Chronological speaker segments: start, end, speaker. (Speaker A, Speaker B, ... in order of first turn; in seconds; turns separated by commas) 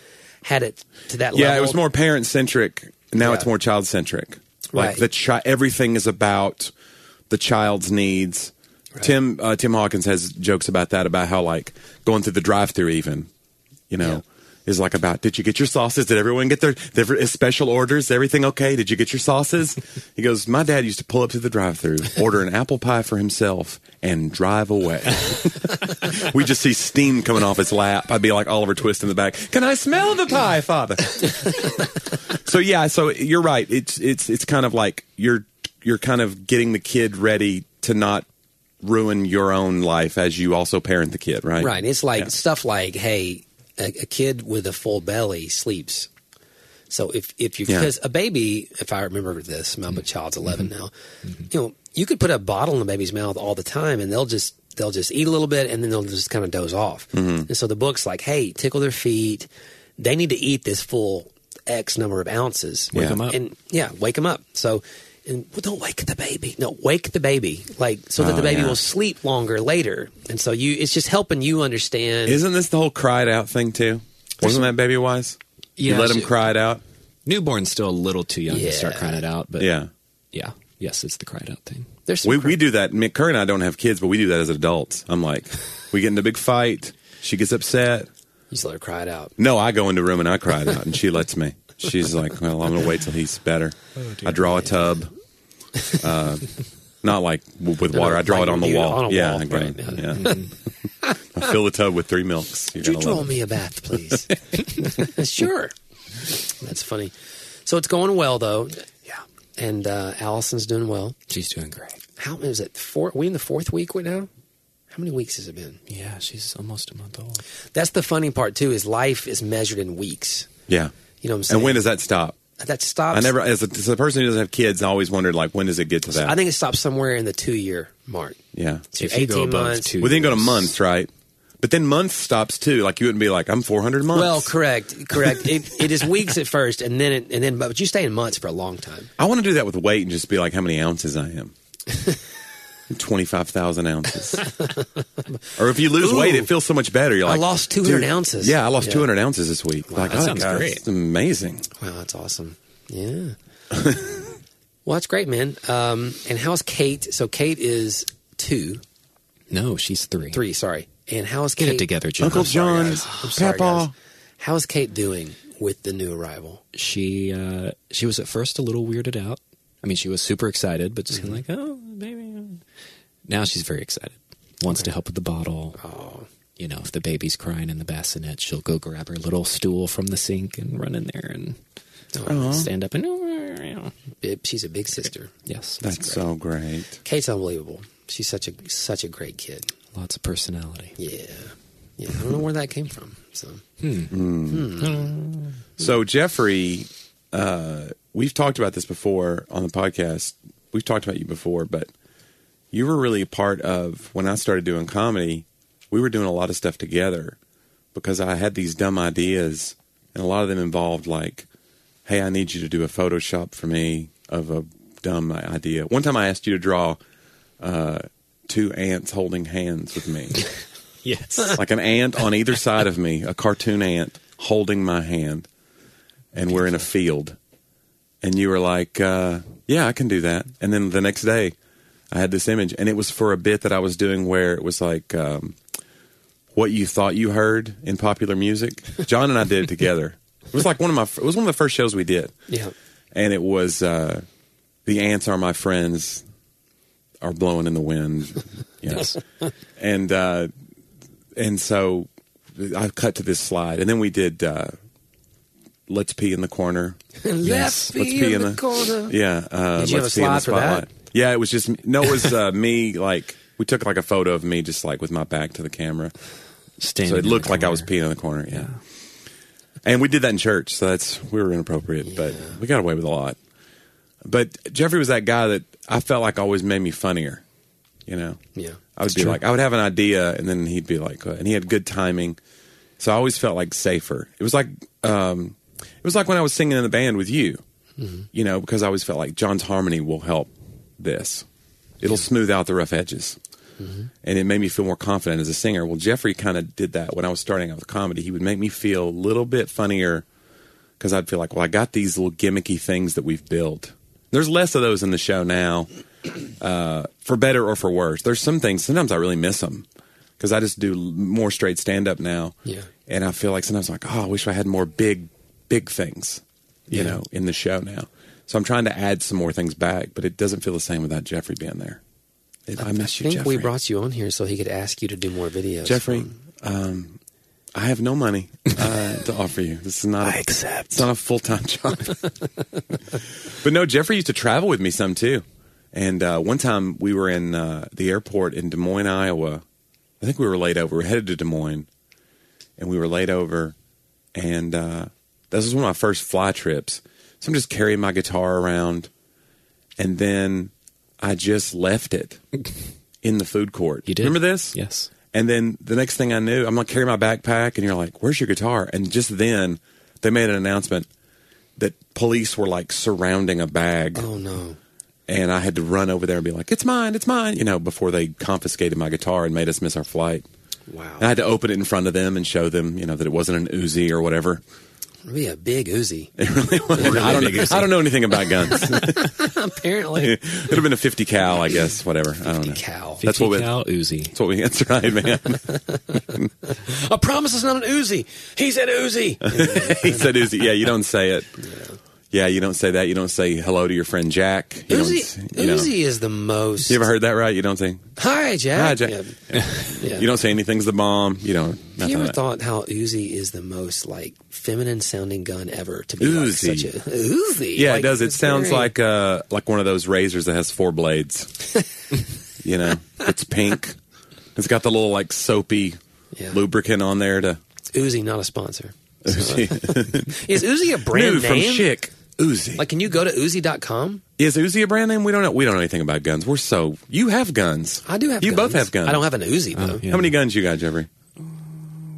Speaker A: 0.4-1.8, Speaker B: 1.3-6.7, Speaker A: 3.2-3.5, Speaker A: 4.7-5.0, Speaker B: 7.3-13.3, Speaker B: 13.9-31.7, Speaker B: 32.3-38.2, Speaker B: 38.8-42.3, Speaker A: 41.6-46.1, Speaker A: 46.9-50.9, Speaker A: 51.5-72.4, Speaker B: 57.1-57.5, Speaker B: 62.9-63.2, Speaker C: 62.9-63.4, Speaker B: 68.2-68.8, Speaker B: 72.2-76.8, Speaker C: 75.8-76.3, Speaker C: 77.2-79.7, Speaker A: 78.5-79.2, Speaker B: 79.6-79.9, Speaker C: 80.3-81.9, Speaker A: 82.1-82.6, Speaker B: 82.2-88.1, Speaker A: 88.5-89.3, Speaker B: 89.4-95.1, Speaker C: 94.0-94.7, Speaker B: 95.9-96.5, Speaker B: 97.0-100.4, Speaker A: 97.9-100.4, Speaker C: 100.1-100.5, Speaker B: 101.3-103.3, Speaker A: 102.8-105.7, Speaker A: 106.2-107.1, Speaker A: 107.7-108.9, Speaker A: 109.6-111.2, Speaker C: 111.3-112.0, Speaker A: 112.2-114.3, Speaker A: 114.9-115.8, Speaker C: 115.9-117.4, Speaker A: 117.7-120.5, Speaker A: 121.2-121.8, Speaker B: 121.5-122.4, Speaker A: 122.6-123.3, Speaker B: 123.1-126.3, Speaker A: 126.1-128.4, Speaker B: 128.5-128.9, Speaker A: 128.9-129.9, Speaker C: 129.0-130.7, Speaker B: 130.0-134.5, Speaker A: 134.1-139.1, Speaker B: 139.2-141.5, Speaker B: 142.9-144.4, Speaker A: 144.4-144.8, Speaker B: 145.6-151.7, Speaker A: 145.9-146.5, Speaker A: 147.2-149.1, Speaker C: 150.0-150.8, Speaker A: 151.8-153.3, Speaker B: 153.7-154.2, Speaker A: 154.8-158.8, Speaker C: 159.5-160.4, Speaker A: 160.3-166.6, Speaker C: 161.6-163.1, Speaker B: 162.2-163.9, Speaker C: 166.7-172.6, Speaker A: 171.1-171.4, Speaker C: 173.3-175.8, Speaker A: 175.8-176.3, Speaker C: 176.6-181.6, Speaker A: 182.1-182.7, Speaker B: 182.3-182.7, Speaker C: 182.3-183.9, Speaker A: 184.2-185.3, Speaker C: 185.5-186.2, Speaker B: 185.8-187.0, Speaker A: 187.0-189.7, Speaker C: 189.9-190.9, Speaker A: 190.9-193.6, Speaker C: 193.8-194.1, Speaker B: 194.1-194.7, Speaker A: 194.5-195.1, Speaker C: 194.8-195.6, Speaker B: 195.8-201.9, Speaker B: 202.7-207.4, Speaker B: 207.9-211.4, Speaker B: 212.1-217.0, Speaker B: 217.6-220.4, Speaker C: 221.0-221.6, Speaker B: 221.4-225.5, Speaker B: 226.3-227.4, Speaker B: 228.2-231.5, Speaker B: 232.1-235.6, Speaker B: 236.5-242.3, Speaker A: 242.5-242.7, Speaker B: 243.1-244.2, Speaker B: 244.8-246.2, Speaker B: 247.2-249.1, Speaker B: 249.8-250.5, Speaker B: 251.3-254.7, Speaker B: 255.9-257.0, Speaker A: 257.2-259.1, Speaker C: 257.4-257.9, Speaker B: 257.9-266.1, Speaker A: 259.8-260.9, Speaker C: 266.8-267.9, Speaker B: 267.0-268.7, Speaker B: 269.8-273.4, Speaker A: 272.1-272.6, Speaker B: 274.2-277.4, Speaker B: 278.1-278.4, Speaker B: 279.0-282.4, Speaker C: 279.1-279.4, Speaker B: 283.0-287.6, Speaker A: 288.0-288.2, Speaker B: 288.3-291.4, Speaker B: 292.0-293.4, Speaker A: 293.8-294.1, Speaker B: 294.2-300.2, Speaker B: 301.0-305.9, Speaker B: 306.6-309.9, Speaker B: 310.4-312.6, Speaker B: 313.1-322.0, Speaker B: 322.7-323.7, Speaker A: 322.8-326.3, Speaker B: 325.8-327.2, Speaker B: 327.7-332.2, Speaker C: 330.2-331.1, Speaker B: 333.5-339.6, Speaker B: 340.2-341.9, Speaker B: 342.8-343.7, Speaker B: 344.3-349.1, Speaker B: 350.0-352.4, Speaker B: 353.2-354.8, Speaker C: 354.1-355.1, Speaker B: 355.3-361.1, Speaker B: 361.8-364.2, Speaker A: 364.1-364.8, Speaker B: 365.3-370.4, Speaker A: 370.9-371.3, Speaker B: 371.2-374.6, Speaker A: 375.2-376.4, Speaker B: 376.4-379.5, Speaker A: 376.9-377.5, Speaker C: 376.9-378.1, Speaker A: 378.6-380.4, Speaker B: 380.2-383.8, Speaker A: 382.5-383.2, Speaker C: 383.2-384.3, Speaker B: 384.3-386.5, Speaker A: 385.7-390.3, Speaker B: 389.4-391.5, Speaker A: 391.6-392.0, Speaker B: 392.3-395.9, Speaker A: 394.9-397.0, Speaker B: 396.9-398.1, Speaker A: 398.2-400.3, Speaker B: 398.7-402.4, Speaker A: 402.0-408.9, Speaker B: 406.2-406.9, Speaker B: 407.8-411.5, Speaker B: 412.6-414.0, Speaker B: 414.6-416.0, Speaker B: 416.5-417.6, Speaker A: 417.9-421.9, Speaker B: 419.2-420.4, Speaker B: 421.1-422.8, Speaker A: 422.8-424.2, Speaker B: 424.4-429.2, Speaker A: 428.1-430.0, Speaker C: 429.7-430.3, Speaker B: 430.0-431.1